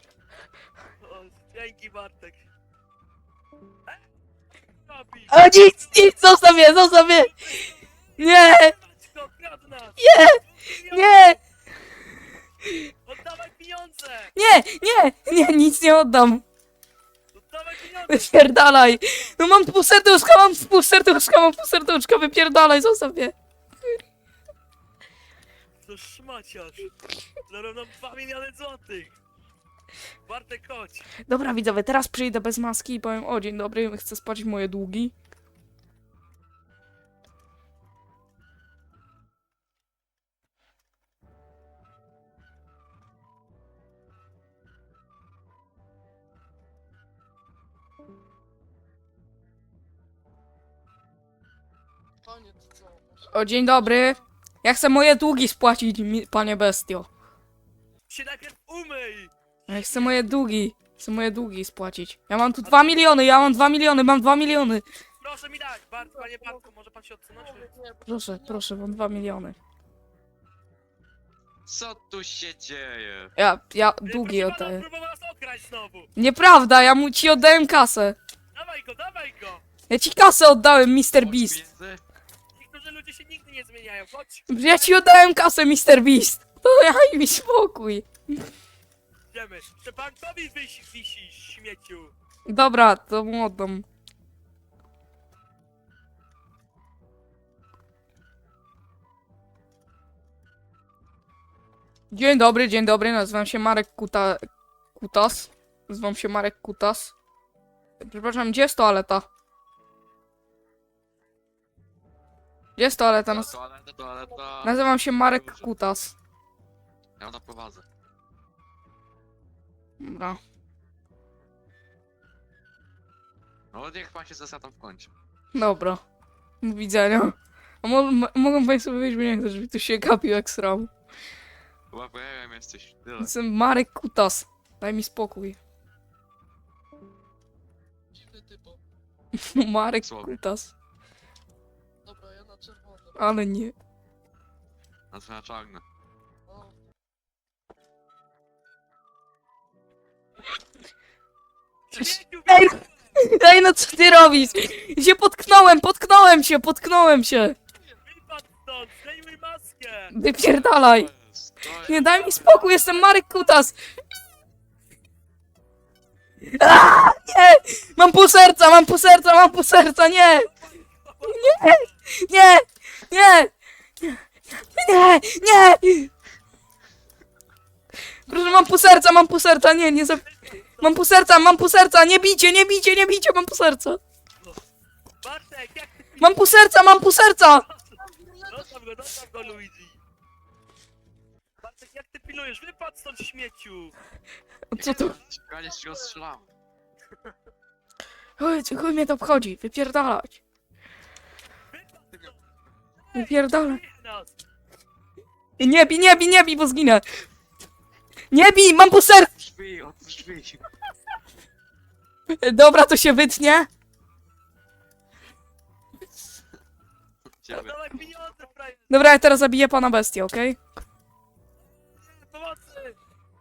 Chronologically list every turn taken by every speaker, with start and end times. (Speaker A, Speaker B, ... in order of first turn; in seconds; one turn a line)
Speaker A: 1.0-2.4
Speaker A: 4.7-6.2
Speaker B: 5.3-7.4
Speaker A: 7.0-11.4
Speaker B: 8.2-8.8
Speaker B: 10.0-11.4
Speaker A: 13.1-14.3
Speaker B: 14.4-16.4
Speaker A: 17.3-19.3
Speaker B: 18.1-23.3
Speaker A: 25.8-26.9
Speaker A: 27.5-29.2
Speaker A: 30.3-31.1
Speaker B: 31.3-35.1
Speaker C: 52.2-54.2
Speaker B: 53.3-57.1
Speaker A: 58.1-60.3
Speaker B: 59.7-64.8
Speaker A: 62.6-63.1
Speaker A: 65.2-67.7
Speaker C: 66.1-66.6
Speaker C: 67.3-69.0
Speaker B: 68.1-69.6
Speaker D: 71.7-73.3
Speaker B: 73.4-74.8
Speaker A: 74.1-76.1
Speaker B: 76.2-78.2
Speaker A: 78.5-79.6
Speaker B: 79.9-81.7
Speaker D: 81.2-82.0
Speaker A: 82.5-85.0
Speaker B: 84.5-88.1
Speaker A: 89.3-92.1
Speaker B: 92.5-93.8
Speaker B: 102.1-104.4
Speaker B: 105.0-107.2
Speaker B: 108.0-109.3
Speaker B: 112.8-113.5
Speaker D: 113.3-115.7
Speaker B: 114.6-116.1
Speaker D: 117.2-117.8
Speaker B: 120.0-120.4
Speaker D: 123.7-125.1
Speaker B: 125.5-126.0
Speaker B: 126.6-130.9
Speaker D: 131.9-133.3
Speaker B: 133.2-135.6
Speaker C: 138.1-138.8
Speaker B: 139.4-140.7
Speaker D: 140.0-140.3
Speaker C: 142.1-143.4
Speaker B: 143.2-143.7
Speaker D: 145.1-145.8
Speaker C: 146.5-146.7
Speaker A: 151.9-153.3
Speaker B: 152.0-157.6
Speaker A: 153.9-154.7
Speaker A: 158.0-160.1
Speaker B: 160.1-161.1
Speaker D: 160.5-162.8
Speaker B: 161.8-163.8
Speaker B: 166.5-170.5
Speaker A: 170.4-171.9
Speaker B: 171.3-173.5
Speaker B: 174.8-176.1
Speaker B: 178.3-180.2
Speaker A: 180.2-181.0
Speaker B: 180.8-184.0
Speaker A: 185.2-186.6
Speaker B: 186.2-187.7
Speaker A: 187.6-190.0
Speaker C: 188.0-188.7
Speaker A: 191.6-193.9
Speaker B: 194.7-195.2
Speaker D: 194.8-196.5
Speaker A: 194.8-195.2
Speaker C: 195.7-196.1
Speaker B: 198.4-200.4
Speaker A: 201.7-202.4
Speaker A: 203.0-204.3
Speaker B: 203.2-203.8
Speaker B: 205.6-207.0
Speaker B: 208.3-209.3
Speaker D: 209.3-210.7
Speaker B: 212.3-213.7
Speaker D: 217.4-217.8
Speaker A: 217.5-219.1
Speaker B: 218.9-220.6
Speaker A: 221.8-223.0